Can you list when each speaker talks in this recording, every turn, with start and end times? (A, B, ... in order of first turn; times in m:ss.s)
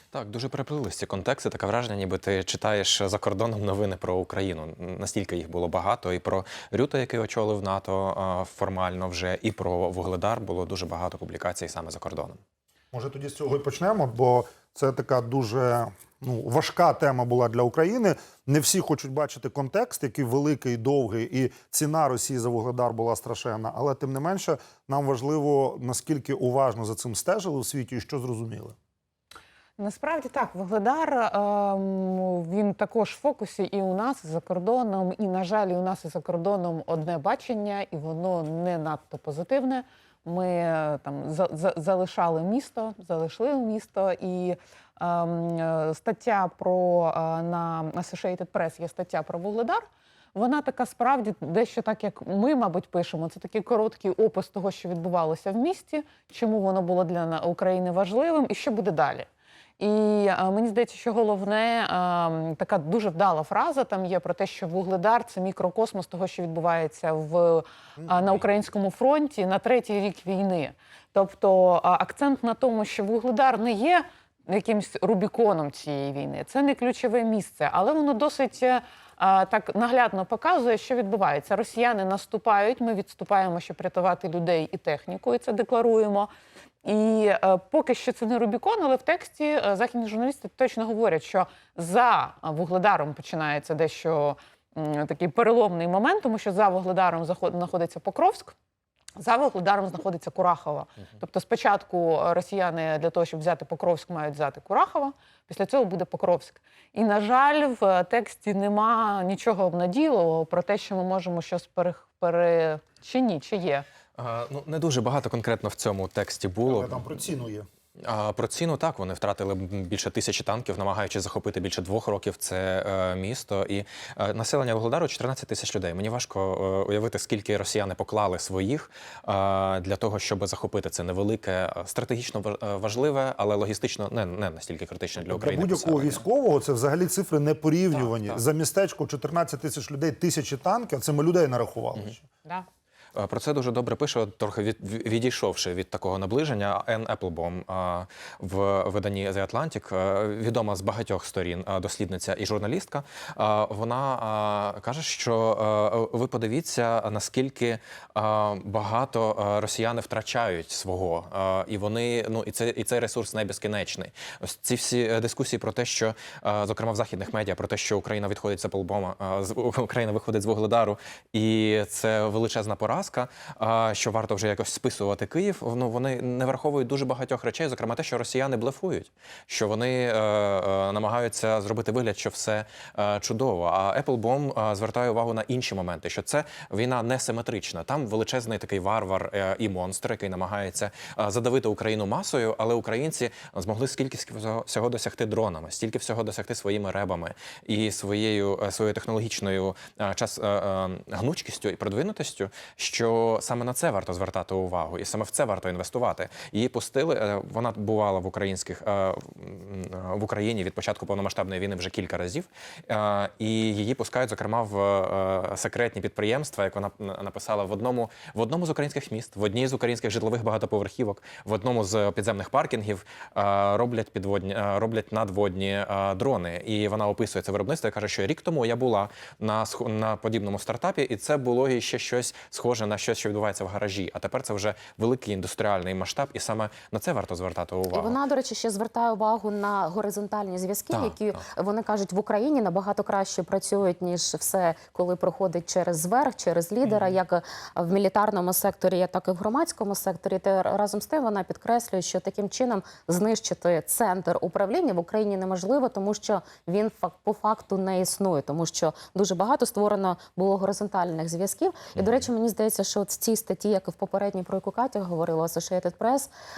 0:00.1-0:12.4 A
0:12.9-0:28.8 B
0:29.8-0:49.8 C
0:50.4-0:59.3 C
0:59.8-1:26.3 C
1:26.8-1:38.6 C
1:39.2-1:53.8 C
1:54.2-1:57.2 A
1:56.7-1:57.7 B
1:58.0-2:16.2 A
2:15.3-2:22.2 B
2:17.9-2:18.4 A
2:23.2-3:58.2 A
3:57.9-4:26.3 D
4:22.0-4:22.2 A